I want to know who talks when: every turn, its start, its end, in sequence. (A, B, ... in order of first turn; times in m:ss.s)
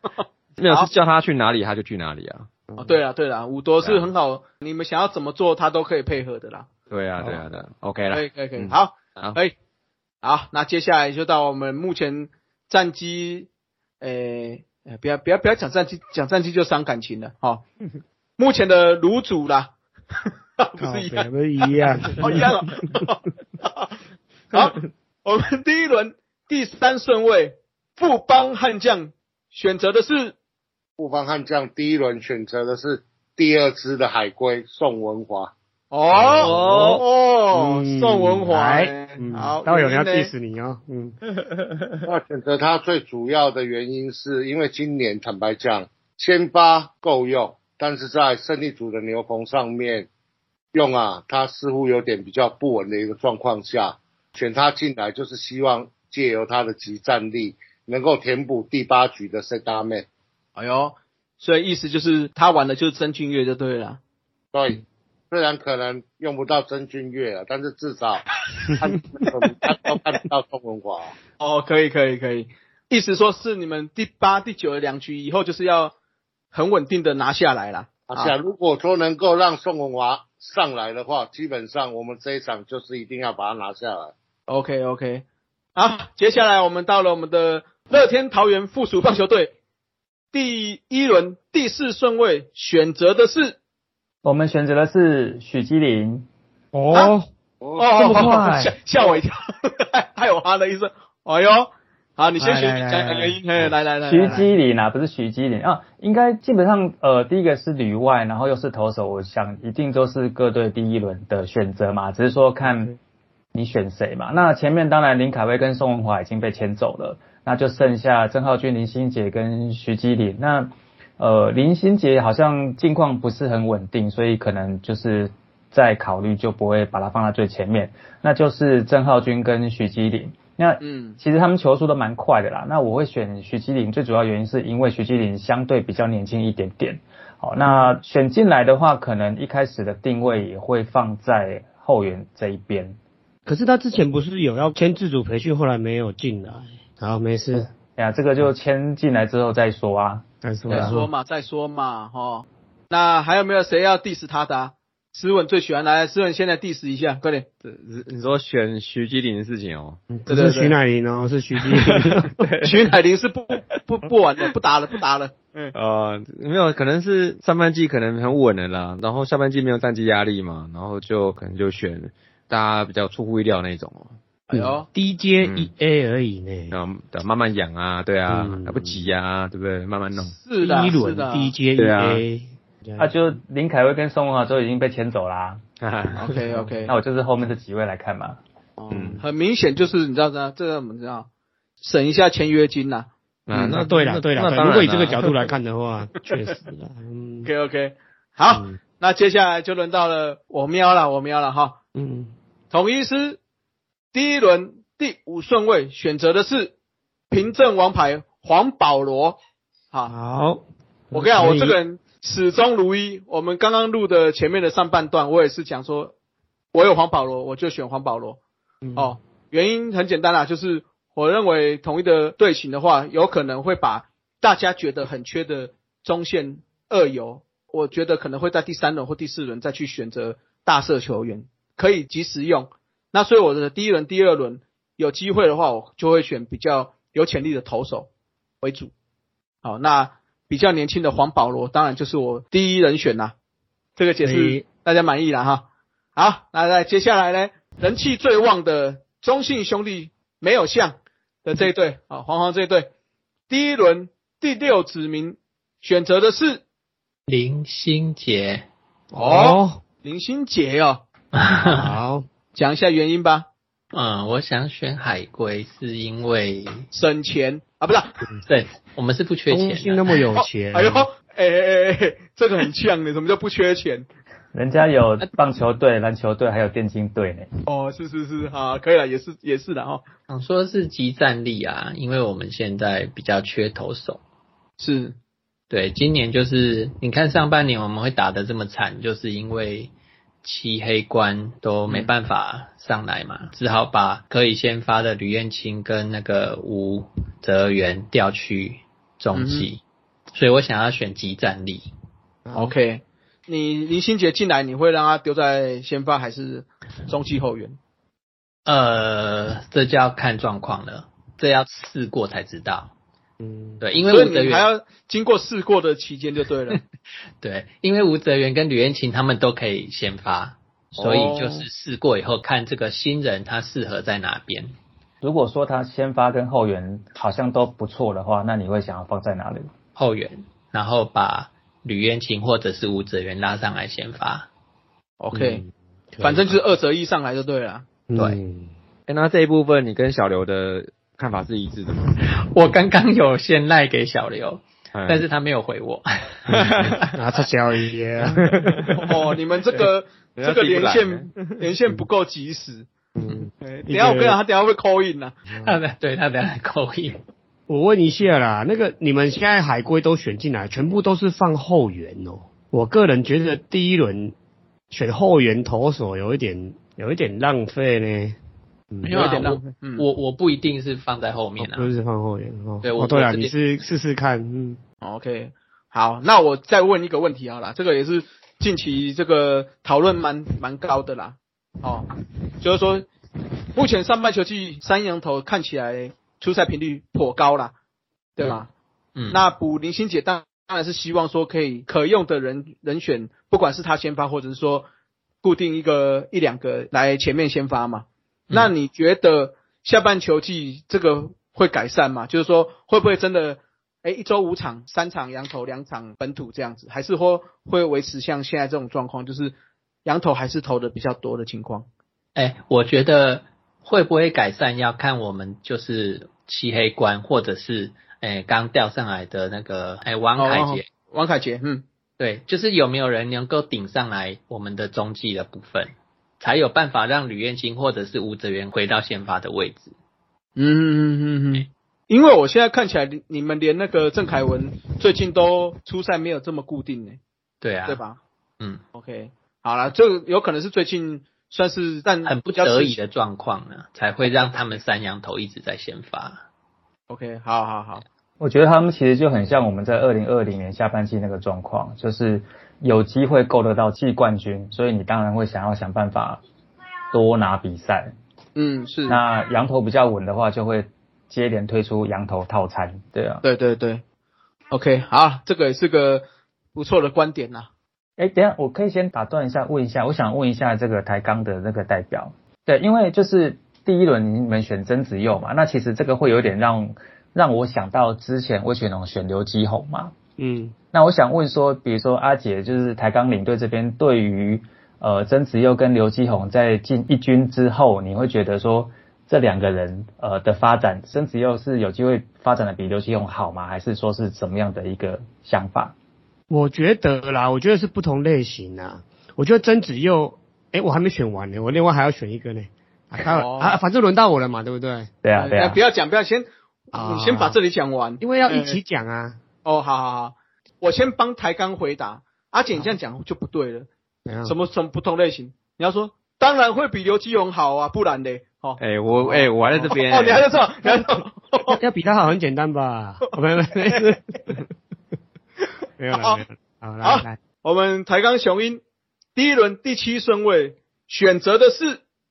0:00.2-0:00.9 A
0:00.6-0:02.5 B
0:02.7-0:03.0 C
0:02.8-0:06.7 A
0:03.8-0:04.1 B
0:06.9-0:09.4 B
0:07.2-0:07.4 C
0:08.1-0:09.5 A
0:10.2-0:13.5 A
0:14.0-0:17.6 A
0:18.4-0:19.7 A
0:20.6-0:23.9 A
0:20.8-0:22.5 C
0:24.5-0:30.3 A
0:31.0-0:35.5 D
0:35.9-0:40.3 A
0:36.2-0:36.9 C
0:36.2-0:37.0 B
0:37.5-0:41.2 C
0:42.0-0:50.1 D
0:50.7-1:00.0 D
1:00.6-1:04.0 A
1:04.5-1:11.1 D
1:11.4-1:15.9 A
1:16.5-1:18.3 A
1:18.1-1:24.1 D
1:24.5-1:25.2 A
1:25.8-1:29.5 A
1:30.3-1:33.6 A
1:34.2-1:36.3 E
1:36.7-1:37.3 C
1:37.6-1:37.9 D
1:37.8-1:44.5 A
1:37.9-1:38.8 C
1:42.4-1:43.4 C
1:44.0-1:52.9 E
1:53.5-2:23.0 E
2:10.8-2:11.2 A
2:17.6-2:17.9 C
2:23.4-2:27.7 C
2:28.0-2:30.9 E
2:30.4-2:31.1 C
2:30.7-2:37.5 A
2:37.6-2:40.0 B
2:40.1-2:42.4 C
2:40.3-2:40.7 A
2:41.8-2:42.8 B
2:42.6-2:45.7 A
2:45.7-2:54.2 B
2:54.5-2:54.8 A
2:54.5-2:56.8 C
2:55.4-2:55.7 B
2:56.7-3:00.4 B
2:58.3-2:59.0 C
3:00.4-3:01.5 A
3:00.6-3:03.1 C
3:01.8-3:02.2 B
3:03.0-3:05.6 E
3:05.8-3:06.3 B
3:06.2-3:06.9 A
3:06.8-3:08.4 E
3:08.8-3:09.2 C
3:08.9-3:09.2 B
3:09.2-3:11.3 A
3:11.8-3:13.8 A
3:13.5-3:15.3 B
3:13.6-3:17.5 C
3:17.4-3:21.8 A
3:18.5-3:18.8 C
3:21.9-3:22.3 C
3:22.7-3:23.4 A
3:24.1-3:26.7 A
3:27.3-3:29.4 A
3:30.1-3:31.8 C
3:31.1-3:36.1 A
3:36.7-3:38.4 A
3:38.8-3:39.2 C
3:39.0-3:58.1 A
3:58.6-3:58.9 A
3:59.6-4:03.3 A
4:04.0-4:05.6 A
4:04.2-4:04.6 C
4:06.2-4:12.9 A
4:13.5-4:16.6 A
4:17.3-4:18.7 F
4:19.1-4:19.8 C
4:19.2-4:21.0 A
4:21.3-4:22.0 F
4:21.6-4:22.2 C
4:22.5-4:23.4 A
4:23.9-4:26.9 F
4:26.9-4:28.1 A
4:28.4-4:30.2 F
4:29.5-4:31.1 C
4:30.4-4:34.1 A
4:34.5-4:37.5 E
4:37.6-4:40.0 A
4:40.3-4:44.2 F
4:44.8-4:45.2 A
4:45.7-4:49.9 F
4:50.4-4:59.8 F
4:59.3-4:59.7 A
5:00.3-5:01.9 F
5:02.4-5:02.7 C
5:02.5-5:07.8 A
5:08.6-5:12.9 F
5:13.4-5:13.8 C
5:13.8-5:14.7 F
5:14.0-5:16.8 A
5:17.4-5:24.7 F
5:21.0-5:21.6 A
5:25.2-5:29.7 E
5:30.0-5:34.5 F
5:35.2-5:35.6 A
5:35.3-5:36.5 C
5:36.2-5:37.8 A
5:38.1-5:38.7 C
5:39.1-5:42.1 B
5:42.2-5:47.1 F
5:44.9-5:45.2 B
5:46.5-5:49.0 C
5:49.0-5:52.9 A
5:50.4-5:51.3 B
5:53.1-5:54.4 C
5:53.6-5:55.3 A
5:55.5-5:55.8 C
5:55.6-5:57.2 F
5:57.7-6:04.3 C
6:04.9-6:08.4 C
6:08.9-6:09.2 C
6:09.0-6:11.9 F
6:09.1-6:10.0 A
6:11.6-6:14.8 C
6:12.8-6:13.5 F
6:15.0-6:22.0 A
6:22.6-6:23.1 A
6:23.7-6:27.7 A
6:28.4-6:28.7 A
6:29.2-6:29.4 F
6:29.3-6:34.9 A
6:35.4-6:51.8 A
6:52.4-7:00.8 F
7:00.4-7:01.8 A
7:02.2-7:09.9 F
7:10.6-7:17.2 A
7:17.6-7:18.0 F
7:17.8-7:18.2 A
7:18.9-7:23.0 A
7:22.2-7:26.4 F
7:27.1-7:28.0 A
7:28.4-7:36.4 E
7:37.1-7:38.1 E
7:38.6-7:39.2 A
7:39.1-7:43.4 E
7:43.4-7:44.0 A
7:44.7-7:47.7 A
7:48.2-8:00.1 E
8:00.4-8:00.7 C
8:00.9-8:15.9 E
8:16.5-8:25.1 C
8:23.2-8:23.8 A
8:25.2-8:25.8 E
8:25.3-8:28.8 A
8:26.9-8:27.6 C
8:28.2-8:29.4 C
8:29.6-8:33.9 A
8:34.2-8:34.5 C
8:34.4-8:41.8 A
8:38.8-8:40.5 B
8:41.7-8:44.6 C
8:46.0-8:47.4 C
8:46.1-8:46.4 A
8:47.0-8:48.8 A
8:49.3-8:52.0 A